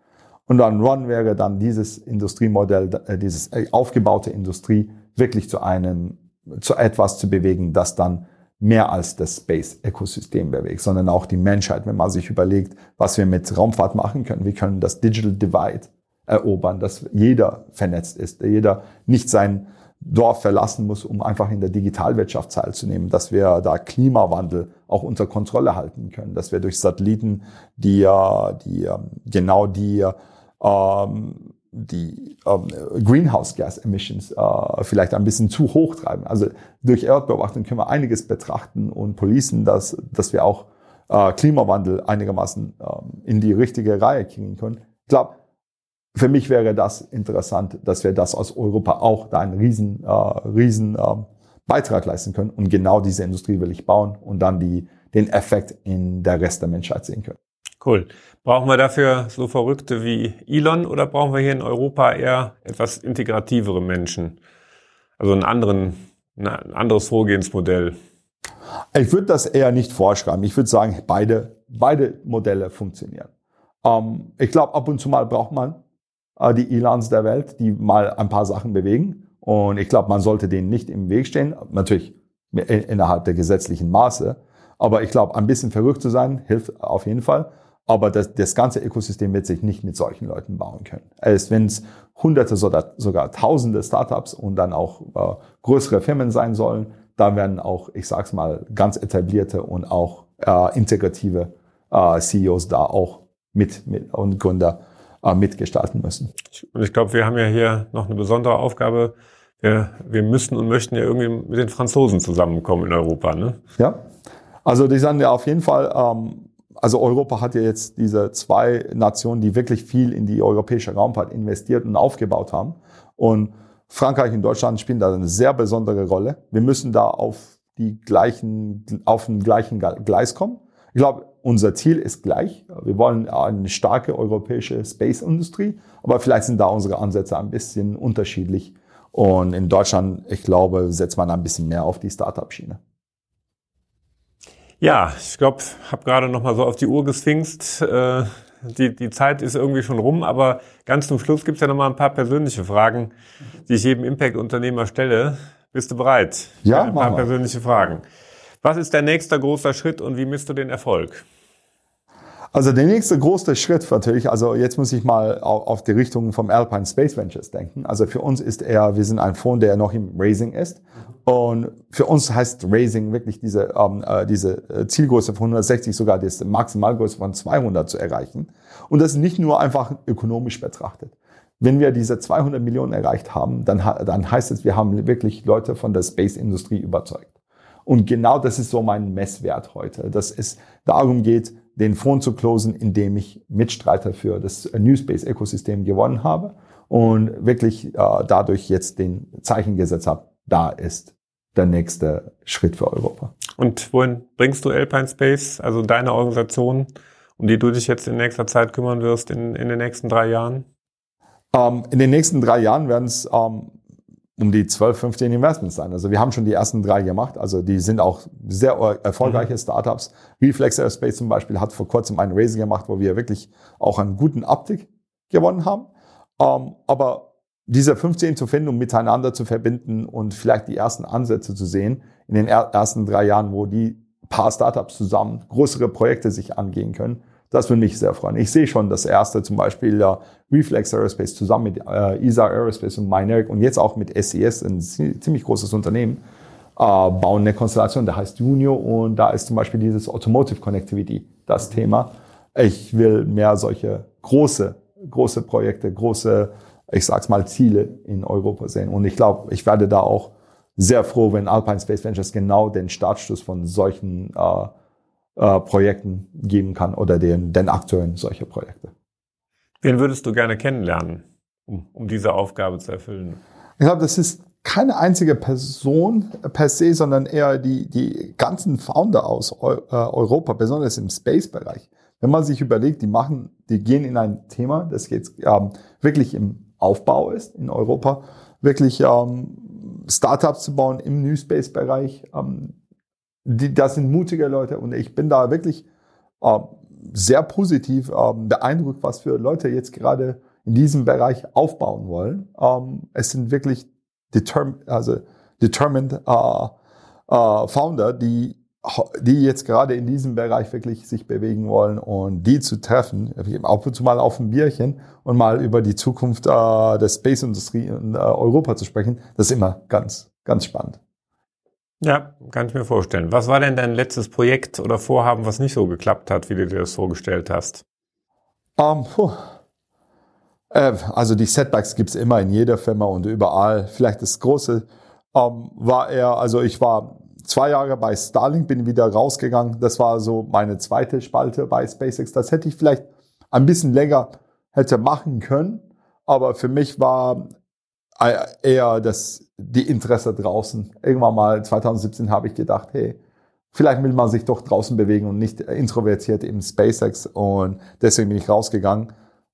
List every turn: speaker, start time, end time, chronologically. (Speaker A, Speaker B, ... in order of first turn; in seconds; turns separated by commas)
Speaker A: 0.5-45.3, Speaker A: 46.1-57.4, Speaker B: 57.8-64.4, Speaker B: 65.2-68.0, Speaker A: 68.9-73.3, Speaker A: 73.8-75.8, Speaker A: 76.4-106.3, Speaker B: 106.7-113.6, Speaker A: 113.8-114.0, Speaker A: 114.6-142.8, Speaker B: 144.8-153.1, Speaker B: 153.7-158.0, Speaker A: 156.6-157.3, Speaker B: 158.6-161.2, Speaker A: 162.5-187.3, Speaker A: 187.8-203.3, Speaker B: 203.6-210.7, Speaker A: 211.5-213.7, Speaker A: 214.4-246.2, Speaker A: 246.8-264.7, Speaker A: 265.4-268.9, Speaker B: 269.8-273.4, Speaker A: 273.8-292.7, Speaker A: 293.4-295.8, Speaker A: 296.4-306.7, Speaker A: 307.3-321.0, Speaker B: 322.0-327.8, Speaker A: 328.8-329.4, Speaker A: 330.7-347.4, Speaker A: 348.2-353.2, Speaker A: 353.7-359.1